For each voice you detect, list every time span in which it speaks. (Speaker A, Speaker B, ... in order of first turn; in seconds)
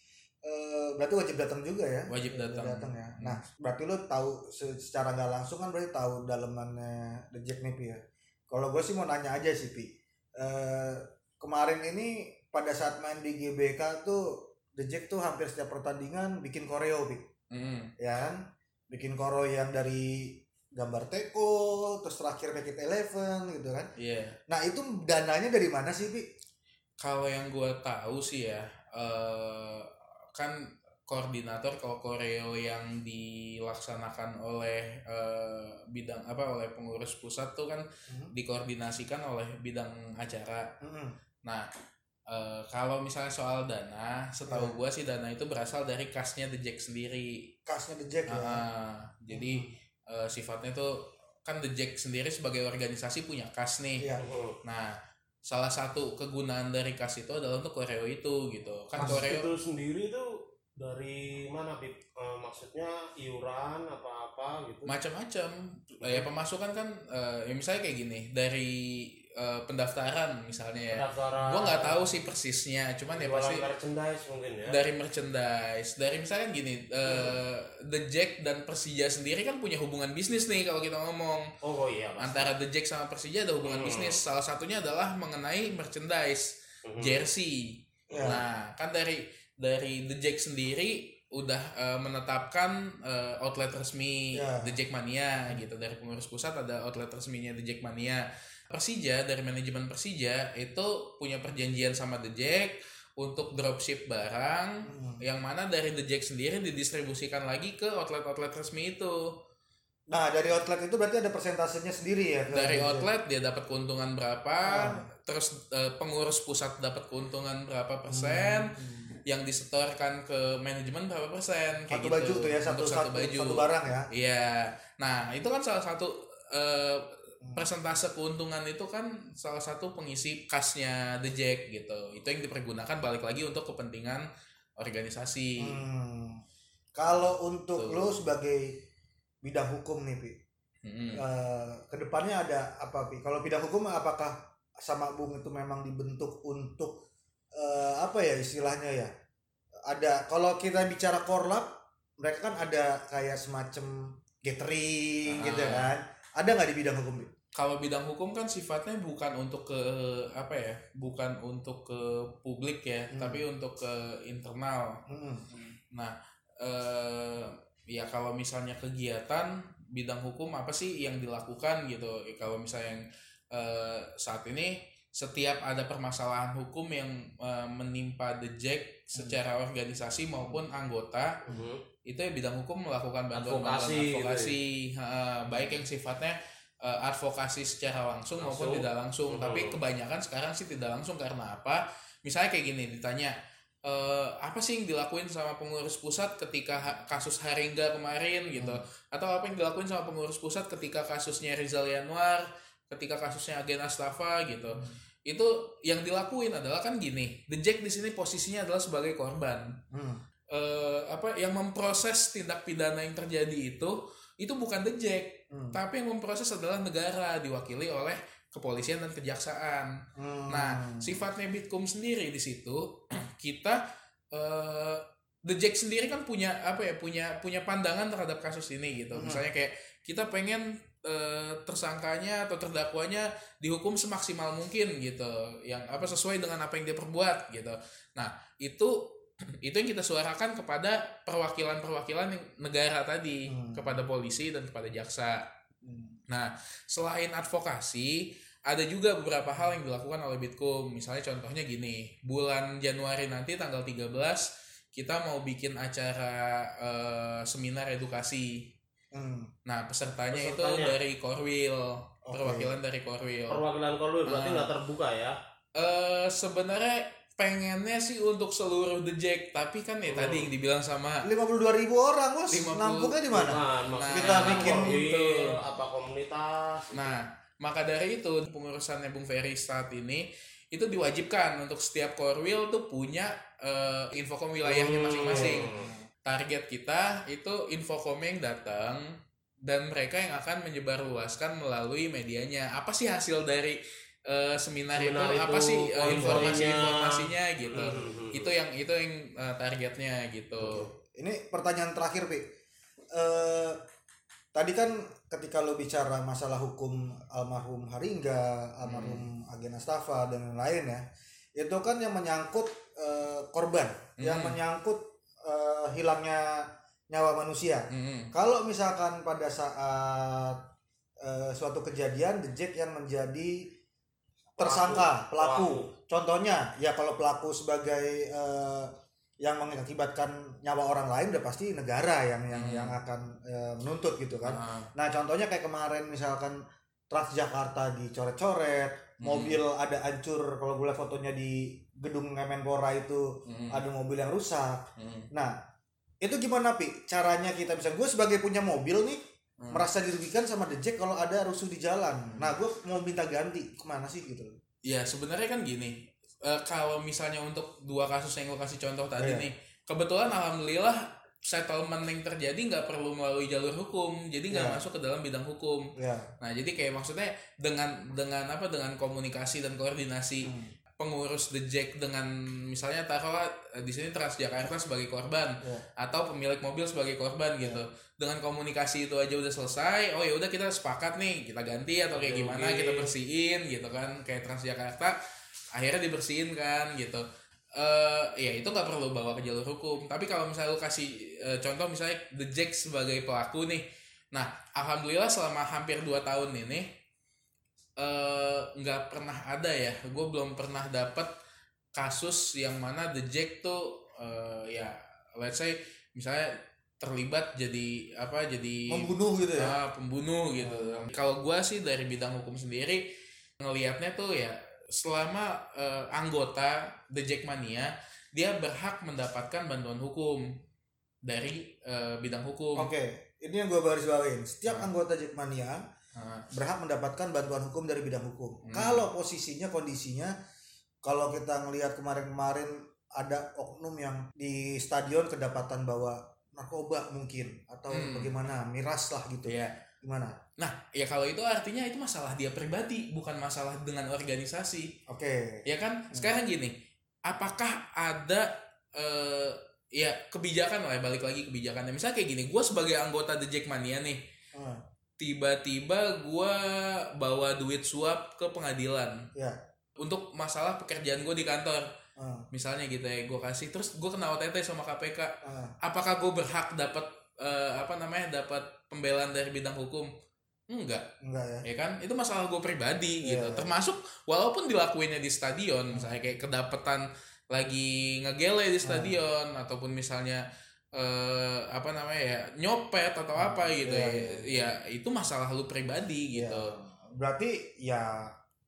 Speaker A: 0.4-17.3, 18.0-23.9, 24.5-26.2, 40.8-41.1, 44.5-44.8, 47.7-48.6, 49.3-49.7, 59.0-59.2, 66.0-66.3, 88.1-88.4, 94.3-94.7, 104.8-105.2, 110.1-113.1, 114.7-115.0, 118.1-119.1, 121.9-124.1, 127.4-127.7, 135.6-136.4, 137.0-138.8, 139.4-140.4, 141.1-147.0, 147.6-149.1, 149.9-157.3, 163.1-163.4, 165.1-165.5, 204.7-205.0, 209.9-210.2, 215.5-215.8, 220.2-221.2, 229.1-229.4, 243.5-244.0, 245.8-246.2, 259.1-259.5, 262.2-262.7, 271.2-273.6, 274.1-274.9, 285.3-286.0, 296.1-296.6, 300.6-302.5, 303.1-303.8, 304.5-311.0, 311.6-320.6, 321.2-323.7, 324.6-336.6, 337.1-345.5, 346.2-354.6, 359.2-359.5, 364.5-364.8, 365.9-366.3, 370.4-370.7, 408.9-409.8, 410.6-411.1, 422.8-425.8, 426.5-430.3, 431.0-440.4, 445.1-446.3, 454.5-454.8, 462.2-462.4, 465.4-465.7, 471.2-471.7, 473.2-473.7, 478.8-479.2, 483.3-484.5, 486.3-488.3
Speaker B: 2.1-3.4, 17.5-17.9, 24.0-24.4, 27.0-40.7, 42.3-47.5, 48.3-54.0, 54.6-54.9, 55.5-59.5, 64.9-73.6, 74.7-81.4, 82.2-109.2, 112.5-118.7, 119.2-134.2, 134.8-135.8, 137.8-138.2, 140.8-141.2, 155.3-155.9, 157.5-165.0, 165.5-181.4, 182.0-209.7, 210.5-219.9, 220.5-223.8, 224.3-245.4, 246.3-258.7, 259.6-263.6, 264.3-264.7, 265.8-271.2, 272.5-273.3, 273.9-275.6, 276.9-285.7, 286.2-289.1, 289.6-300.8, 308.8-309.2, 314.2-314.6, 317.9-318.3, 332.5-332.9, 334.4-334.9, 339.2-339.6, 343.5-343.8, 345.0-345.3, 349.6-349.9, 352.2-352.5, 354.9-385.2, 385.7-387.2, 387.8-396.9, 398.0-401.3, 401.9-413.1, 413.6-420.5, 421.2-422.9, 426.1-426.4, 428.7-429.0, 437.9-438.3, 439.5-439.7, 440.6-444.9, 445.7-446.7, 447.3-454.2, 455.2-459.2, 460.0-461.9, 462.5-470.1, 470.7-471.0, 471.6-480.4, 480.9-486.7
Speaker C: 54.2-54.6, 59.0-64.9, 70.9-72.1, 73.1-74.8, 81.6-82.5, 83.6-84.2, 86.8-87.2, 181.5-181.8, 183.3-184.5, 188.4-189.7, 260.3-260.9, 263.5-265.4, 270.1-270.5, 273.3-277.2, 284.6-285.7, 294.9-298.5, 324.6-325.9, 382.1-383.1